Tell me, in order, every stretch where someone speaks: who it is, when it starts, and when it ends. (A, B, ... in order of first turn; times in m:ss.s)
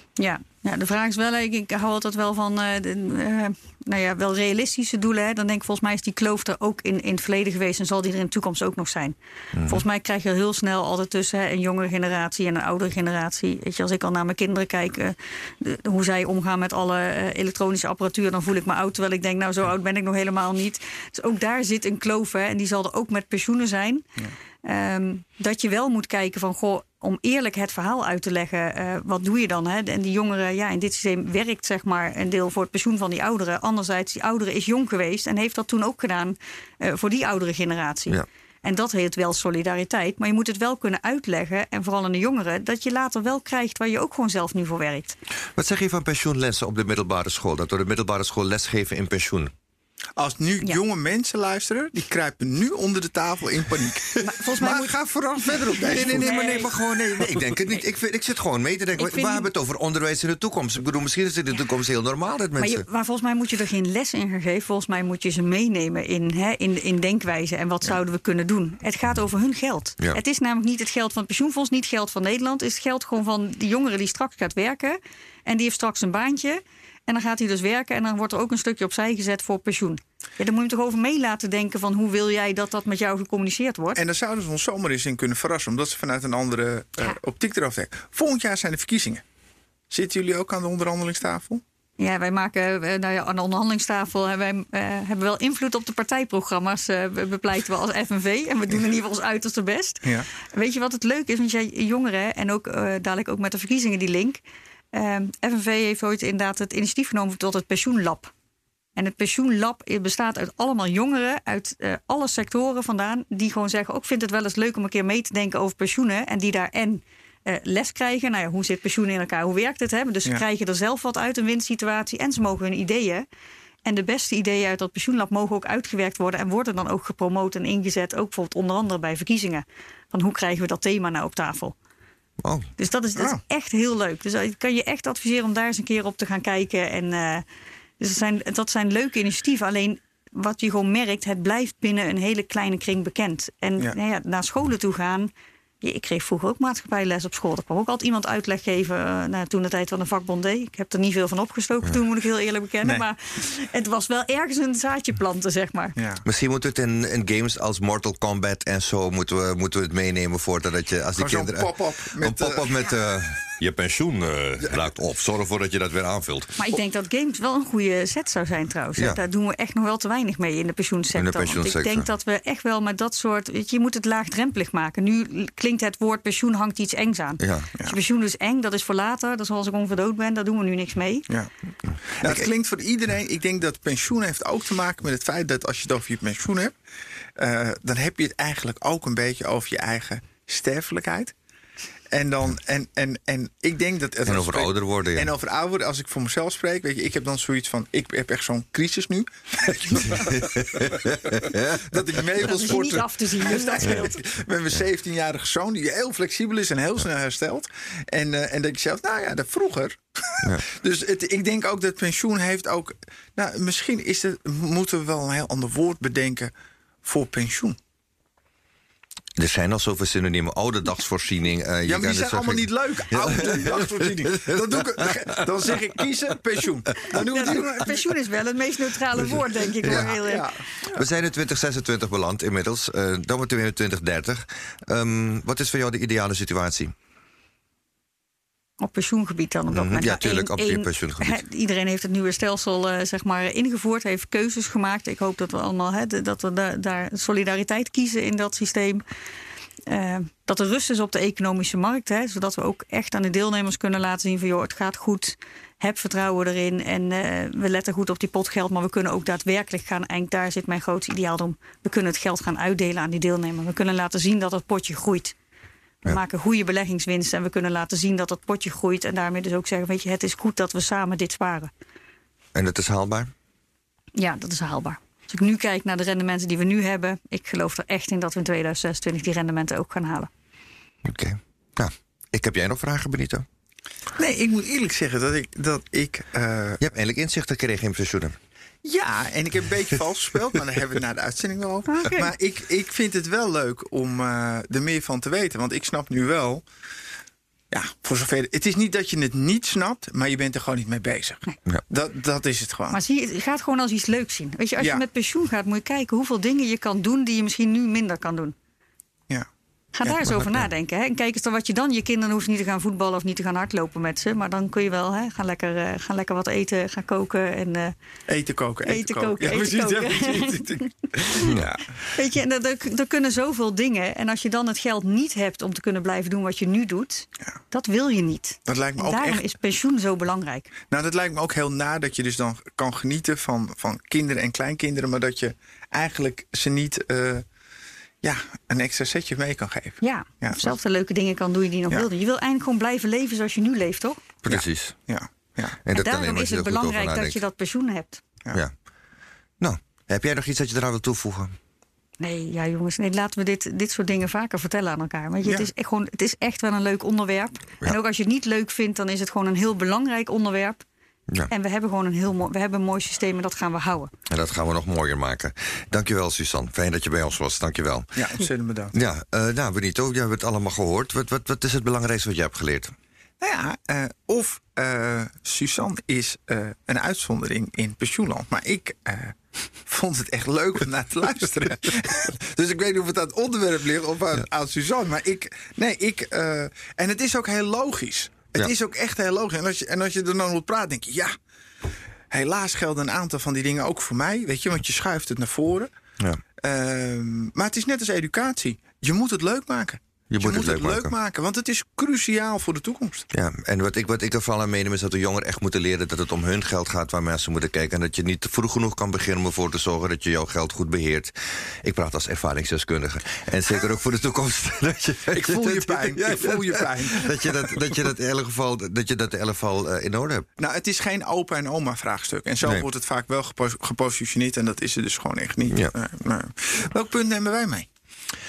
0:00.2-0:24.1 A
0:09.6-0:09.8 B
0:24.6-0:45.2 A
0:45.6-0:49.5 B
0:50.2-0:56.7 C
0:54.2-0:56.7 A
0:55.8-1:02.8 B
0:59.0-0:59.5 A
1:02.6-1:24.0 A
1:24.0-1:29.2 C
1:29.9-1:31.6 C
1:32.0-1:44.4 A
1:44.9-1:48.3 A
1:49.0-2:03.3 A
2:03.8-2:11.8 A
2:12.4-2:12.7 B
2:12.8-2:17.4 A
2:13.2-2:13.4 C
2:18.0-2:25.3 A
2:25.8-2:36.0 A
2:36.0-2:36.2 C
2:36.2-2:46.6 B
2:41.2-2:42.9 C
2:46.6-3:01.3 A
2:51.2-2:52.1 B
2:57.4-2:57.7 B
3:02.1-3:06.8 C
3:07.4-3:11.4 C
3:12.1-3:36.5 C
3:14.3-3:15.3 B
3:20.1-3:22.0 B
3:22.3-3:24.2 A
3:37.0-3:37.8 C
3:39.4-3:45.7 B
3:41.8-3:48.0 C
3:47.1-3:50.5 A
3:49.8-3:50.1 B
3:49.8-3:51.0 C
3:50.9-3:56.9 B
3:58.8-4:09.0 A
3:59.7-4:01.4 B
4:09.9-4:25.4 A
4:26.0-4:31.7 A
4:32.6-4:33.3 B
4:34.2-4:40.3 A
4:41.0-4:43.4 B
4:44.2-4:46.8 C
4:46.8-4:48.4 B
4:48.8-4:56.6 C
4:51.9-4:52.3 A
4:57.7-5:03.0 C
5:02.9-5:08.6 A
5:04.8-5:05.0 C
5:10.0-5:18.0 A
5:18.3-5:21.8 C
5:18.8-5:30.8 A
5:21.4-5:21.8 B
5:28.7-5:29.4 C
5:30.9-5:37.5 C
5:38.2-5:40.7 C
5:40.0-5:44.2 A
5:44.4-5:45.0 B
5:44.5-5:45.8 C
5:45.9-5:47.4 B
5:45.9-5:48.2 A
5:49.6-5:51.6 B
5:52.2-6:00.8 A
6:01.5-6:04.1 A
6:04.3-6:08.3 B
6:08.2-6:08.9 C
6:08.9-6:12.9 B
6:13.4-6:31.3 C
6:32.3-6:35.9 C
6:36.6-6:43.3 C
6:40.3-6:41.1 B
6:43.3-7:00.5 B
6:55.3-6:58.0 C
7:00.6-7:07.9 C
7:05.7-7:06.0 B